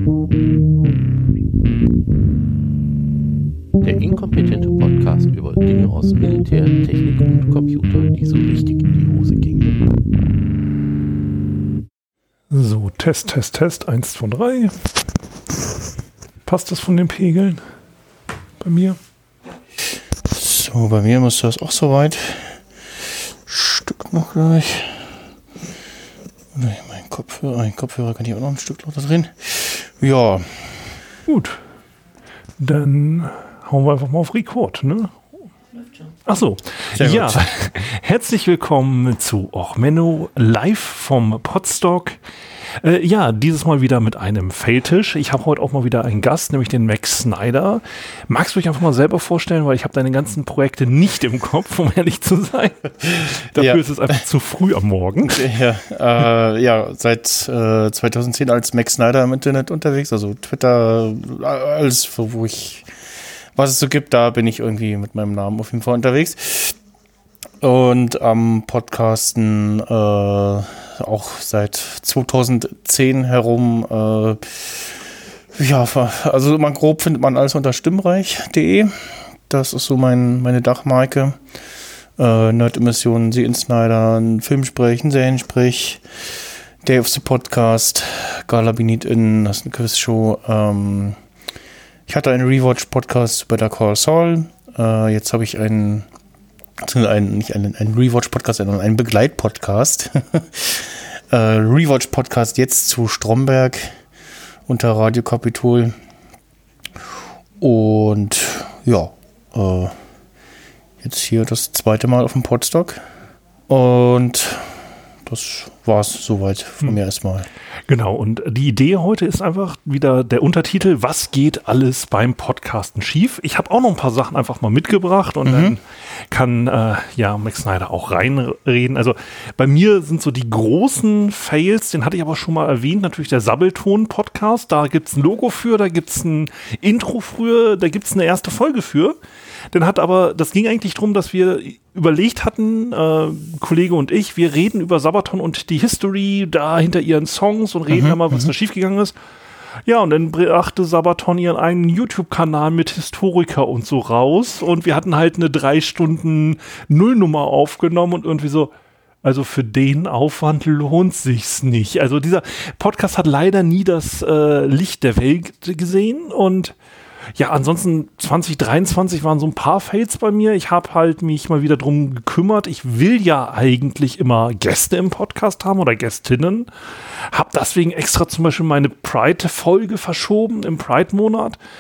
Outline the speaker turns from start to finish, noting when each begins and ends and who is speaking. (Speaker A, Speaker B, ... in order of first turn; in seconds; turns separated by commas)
Speaker A: 3.8-9.7, Speaker B: 12.5-14.8, Speaker B: 16.4-17.6, Speaker B: 18.6-19.0, Speaker C: 20.3-22.6, Speaker C: 23.4-25.1, Speaker C: 26.5-30.9, Speaker B: 31.3-31.6, Speaker B: 32.6-35.2, Speaker B: 36.2-42.2, Speaker C: 36.9-37.4, Speaker B: 42.8-55.4, Speaker C: 53.5-53.8, Speaker C: 55.2-62.9, Speaker C: 63.5-66.8, Speaker C: 67.6-75.0, Speaker C: 75.5-81.4, Speaker C: 82.2-86.0, Speaker C: 86.8-91.2, Speaker C: 92.1-96.1, Speaker C: 96.8-103.9, Speaker C: 104.7-105.9, Speaker C: 107.6-109.9, Speaker C: 111.0-113.0, Speaker C: 113.7-117.5, Speaker B: 117.9-139.2, Speaker C: 125.4-125.8, Speaker B: 139.7-149.1, Speaker C: 147.9-148.5, Speaker B: 149.8-158.7, Speaker B: 159.2-166.7, Speaker B: 167.4-181.6